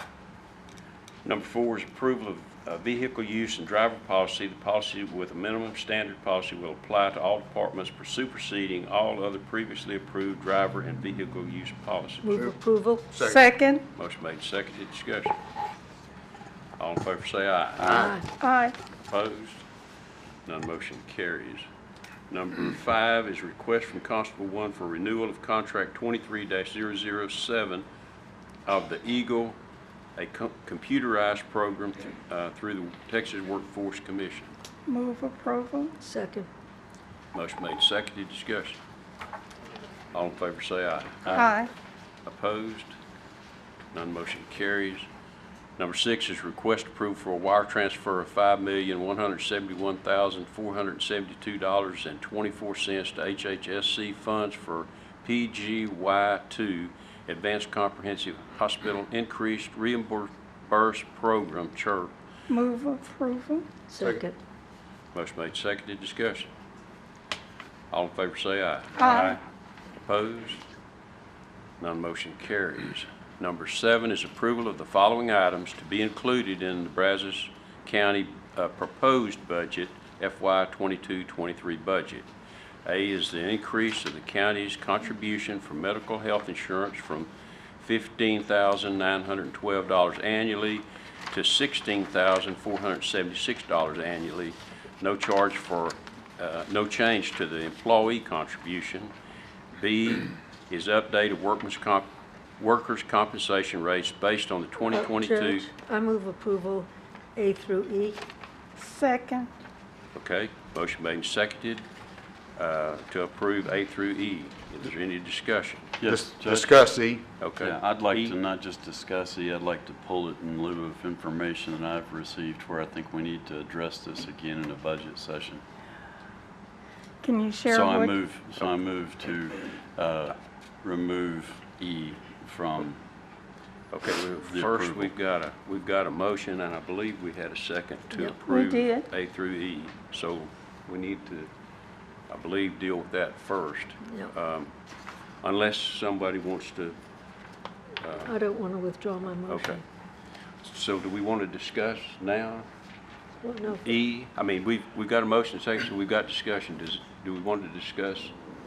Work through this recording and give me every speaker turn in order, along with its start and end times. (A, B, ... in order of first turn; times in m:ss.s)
0:01.2-0:12.3 A
0:12.2-0:13.0 B
0:13.1-0:13.4 C
0:13.2-0:13.8 D
0:13.9-0:15.4 A
0:16.8-0:18.1 A
0:17.8-0:18.2 C
0:18.4-0:18.7 D
0:19.1-0:19.6 A
0:20.4-0:21.7 A
0:22.3-0:27.8 A
0:28.6-0:29.6 A
0:30.2-0:34.5 A
0:34.9-0:36.0 D
0:36.0-0:36.5 B
0:37.3-0:38.8 A
0:40.1-0:41.6 A
0:41.3-0:41.7 D
0:42.2-0:43.0 A
0:43.9-0:45.1 A
0:45.8-1:02.1 A
1:02.5-1:03.7 D
1:03.9-1:04.4 B
1:05.1-1:06.5 A
1:07.9-1:09.4 A
1:09.0-1:09.4 D
1:10.0-1:10.6 A
1:11.8-1:22.3 A
1:22.8-1:39.1 A
1:39.7-1:45.7 A
1:44.9-1:48.2 B
1:48.8-1:49.5 D
1:50.1-1:51.8 A
1:52.6-1:55.9 A
1:56.0-1:56.8 E
1:56.0-1:57.2 C
1:57.4-1:58.4 A
1:57.6-2:05.6 E
2:07.2-2:08.2 D
2:07.7-2:13.0 E
2:13.9-2:21.5 A
2:14.4-2:15.1 E
2:18.4-2:19.0 D
2:22.3-2:24.7 A
2:25.4-2:27.0 A
2:28.0-2:28.3 A
2:28.3-2:29.8 B
2:29.4-2:29.8 A
2:30.6-2:32.6 A
2:33.4-2:33.9 B
2:33.8-2:38.3 A